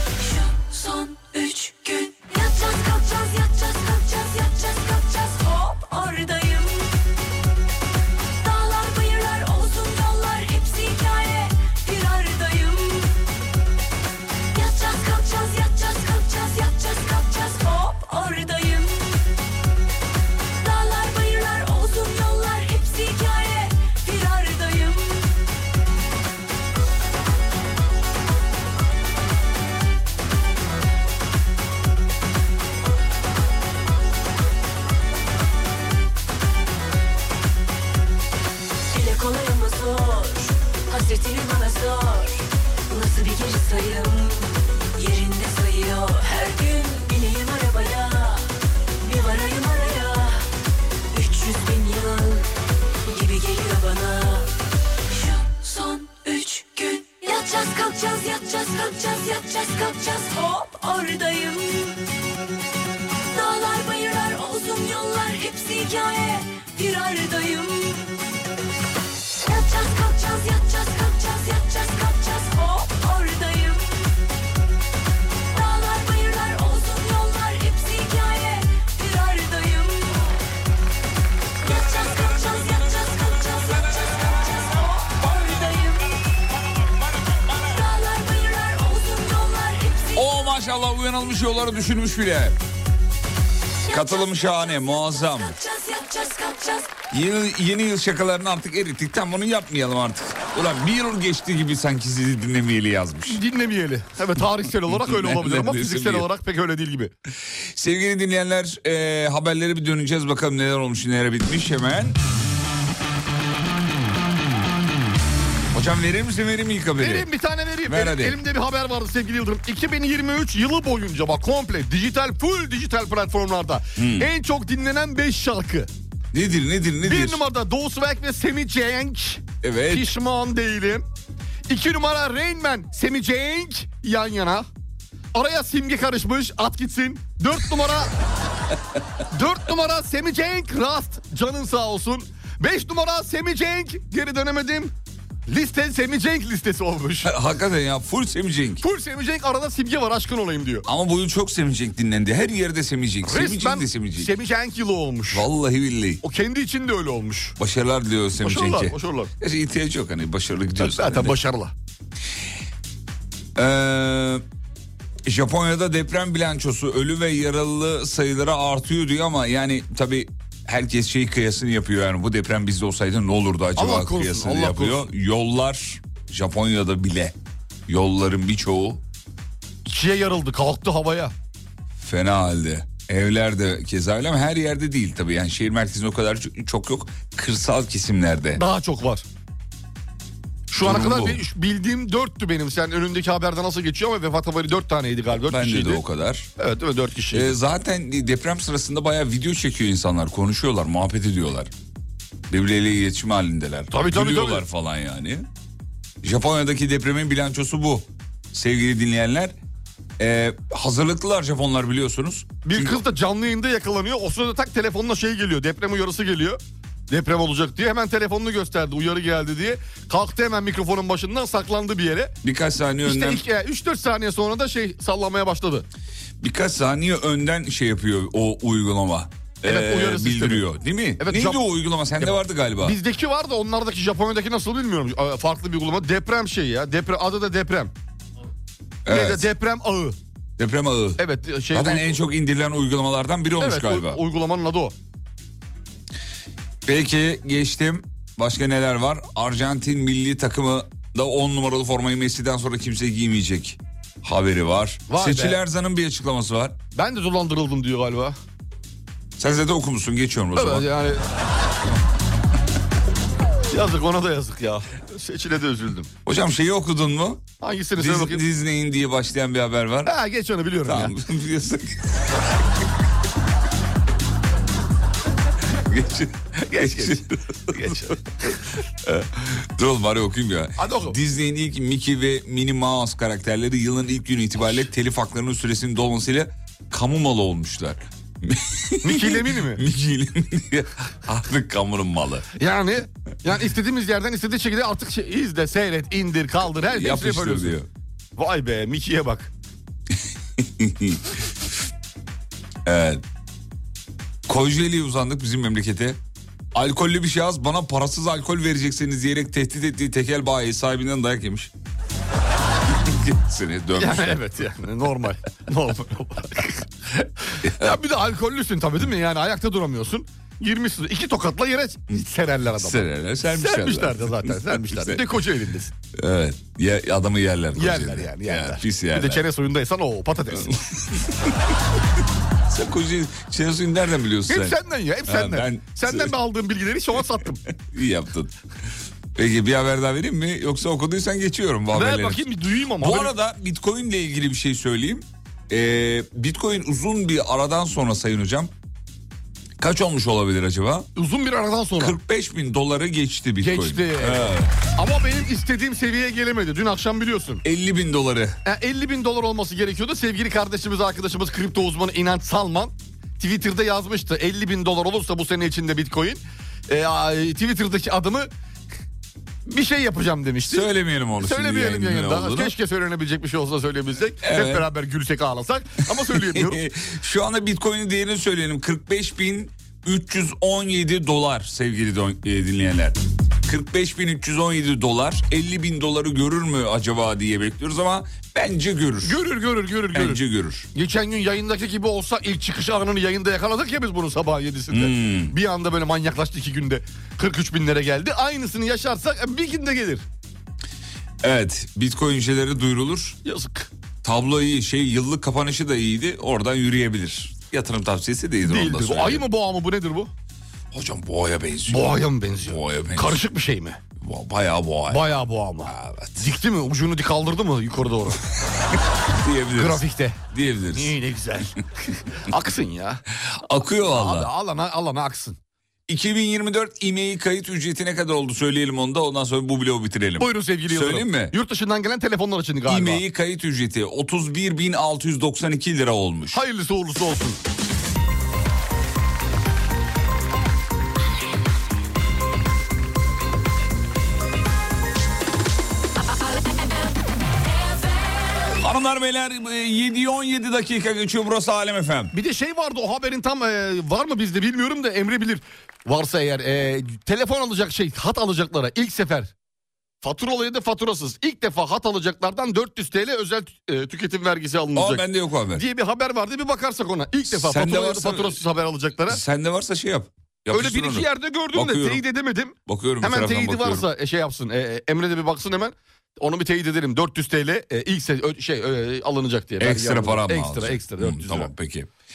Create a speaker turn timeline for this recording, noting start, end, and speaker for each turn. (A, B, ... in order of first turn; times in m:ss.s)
0:00.2-0:07.0 A
0:08.4-0:13.2 A
0:14.5-0:19.2 A
0:20.6-0:25.3 A
0:38.9-0:48.5 A
0:49.0-0:50.4 A
0:51.1-0:52.5 A
0:53.1-0:54.5 A
0:55.1-1:02.0 A
1:03.3-1:08.1 A
1:09.4-1:14.1 A
1:15.5-1:20.4 A
1:21.6-1:26.2 A
1:27.6-1:30.3 A
1:30.1-1:32.6 B
1:33.9-1:35.6 B
1:33.9-1:34.3 A
1:35.4-1:37.0 A
1:37.1-1:43.4 B
1:43.3-1:47.1 C
1:44.6-1:46.3 B
1:47.7-1:52.2 B
1:55.7-1:57.3 B
1:57.0-2:05.9 C
1:57.8-1:58.4 B
2:04.0-2:04.3 B
2:06.3-2:07.4 B
2:07.0-2:11.0 C
2:09.6-2:10.1 B
2:11.7-2:14.7 C
2:15.3-2:18.1 C
2:19.3-2:24.9 C
2:25.5-2:27.3 C
2:27.2-2:28.8 B
2:28.8-2:30.9 C
2:30.9-2:34.3 B
2:33.2-2:35.5 C
2:35.3-2:36.2 B
2:36.2-2:37.6 C
2:37.6-2:41.4 B
2:38.4-2:39.3 C
2:40.8-2:41.7 C
2:43.6-2:44.4 B
2:45.2-2:57.4 B
2:53.8-2:55.1 C
2:57.9-2:59.0 B
2:59.9-3:01.3 C
3:02.0-3:08.6 B
3:08.6-3:09.2 C
3:10.7-3:16.0 C
3:10.8-3:11.4 B
3:15.4-3:16.5 B
3:16.6-3:17.6 C
3:17.3-3:21.7 B
3:22.5-3:25.5 B
3:23.9-3:24.6 C
3:26.2-3:29.6 B
3:30.2-3:33.0 B
3:32.6-3:42.4 C
3:42.4-3:43.4 B
3:43.0-3:45.9 C
3:46.4-3:53.0 B
3:49.6-3:50.7 C
3:51.2-3:51.6 C
3:52.2-3:57.9 C
3:59.0-3:59.5 B
3:59.1-4:00.2 C
4:00.6-4:04.2 B
4:01.2-4:02.2 C
4:03.6-4:04.9 C
4:06.8-4:16.8 B
4:15.1-4:15.6 C
4:17.0-4:18.4 C
4:19.4-4:20.9 B
4:20.6-4:21.2 C
4:23.7-4:26.1 C
4:26.3-4:27.4 B
4:27.6-4:28.4 C
4:28.0-4:30.1 B
4:30.0-4:31.1 C
4:30.8-4:32.2 B
4:35.8-4:38.0 B
4:36.7-4:38.2 C
4:39.0-4:52.5 B
4:40.8-4:41.2 C
4:49.0-4:49.8 C
4:52.6-4:57.8 C
4:56.8-4:57.9 B
4:58.4-4:59.5 C
5:00.6-5:01.4 B
5:02.9-5:03.2 B
5:04.5-5:06.2 B
5:06.7-5:11.7 B
5:13.0-5:14.4 B
5:14.0-5:25.9 C
5:17.7-5:18.0 B
5:22.8-5:25.2 B
5:26.2-5:29.4 B
5:27.8-5:30.8 C
5:30.5-5:31.5 B
5:32.7-5:36.4 B
5:34.5-5:37.6 C
5:37.8-5:38.6 B
5:39.4-5:42.4 B
5:41.9-5:43.3 C
5:43.0-5:48.7 B
5:49.8-5:51.1 B
5:51.2-5:52.2 C
5:52.0-5:54.7 B
5:53.6-5:57.6 C
5:57.6-5:58.6 B
5:58.6-6:08.5 C
6:09.7-6:10.9 C
6:10.7-6:12.8 B
6:11.4-6:16.8 C
6:14.4-6:14.9 B
6:16.2-6:29.4 B
6:29.2-6:30.4 C
6:30.1-6:30.9 B
6:30.9-6:40.2 C
6:34.9-6:35.6 B
6:41.4-6:43.4 B
6:43.4-6:43.9 C
6:44.2-6:49.5 B
6:48.6-6:50.3 C
6:50.9-6:53.4 B
6:51.9-6:54.0 C
6:54.2-6:55.3 B
6:55.1-6:58.4 C
6:55.8-6:56.5 B
6:59.3-7:01.2 B
6:59.8-7:00.4 C
7:00.9-7:01.8 C
7:02.4-7:03.2 C
7:03.4-7:04.5 B
7:04.0-7:05.6 C
7:06.1-7:11.6 B
7:10.4-7:13.2 C
7:12.9-7:16.6 B
7:16.5-7:17.6 C
7:28.7-7:32.3 B
7:32.3-7:39.5 C
7:40.2-7:49.4 C
7:44.9-7:45.8 B
7:47.5-7:48.6 B
7:49.3-7:52.2 B
7:50.7-8:01.7 C
7:52.9-7:54.1 B
7:59.8-8:02.1 B